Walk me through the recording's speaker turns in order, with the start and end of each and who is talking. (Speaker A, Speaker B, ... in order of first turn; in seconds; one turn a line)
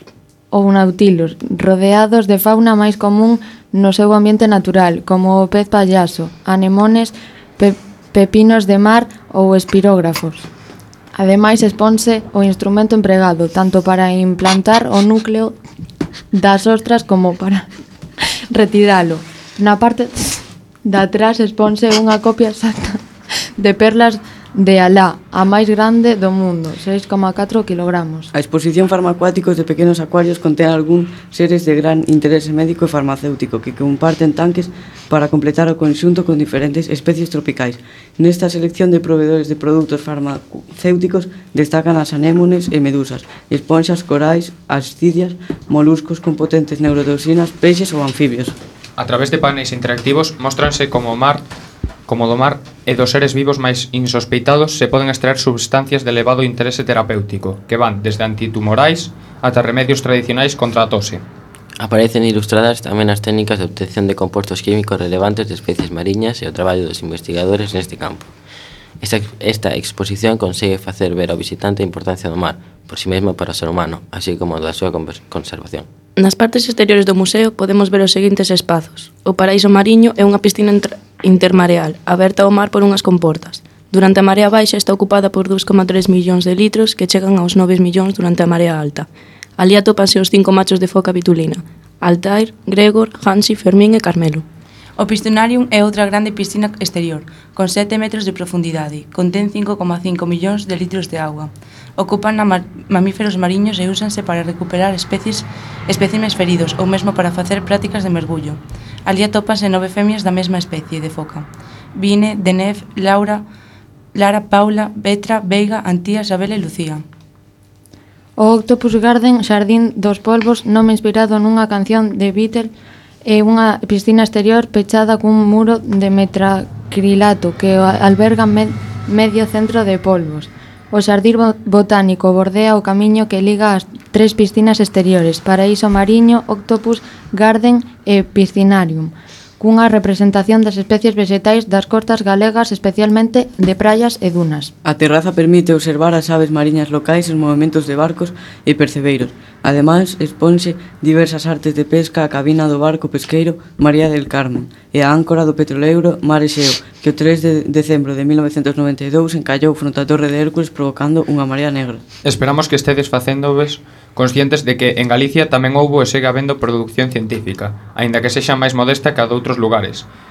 Speaker A: 0.5-10.5
Speaker A: 11.2-15.6
Speaker A: 16.3-17.7
Speaker A: 18.5-23.0
Speaker A: 23.6-28.3
Speaker B: 28.3-48.6
Speaker C: 49.0-51.4
Speaker C: 52.1-61.2
Speaker D: 61.8-68.3
Speaker D: 69.0-75.9
Speaker E: 76.2-89.1
Speaker E: 89.6-94.5
Speaker F: 95.0-113.5
Speaker F: 114.1-117.0
Speaker A: 118.4-122.7
Speaker A: 123.2-144.7
Speaker B: 144.8-162.0
Speaker C: 162.2-170.1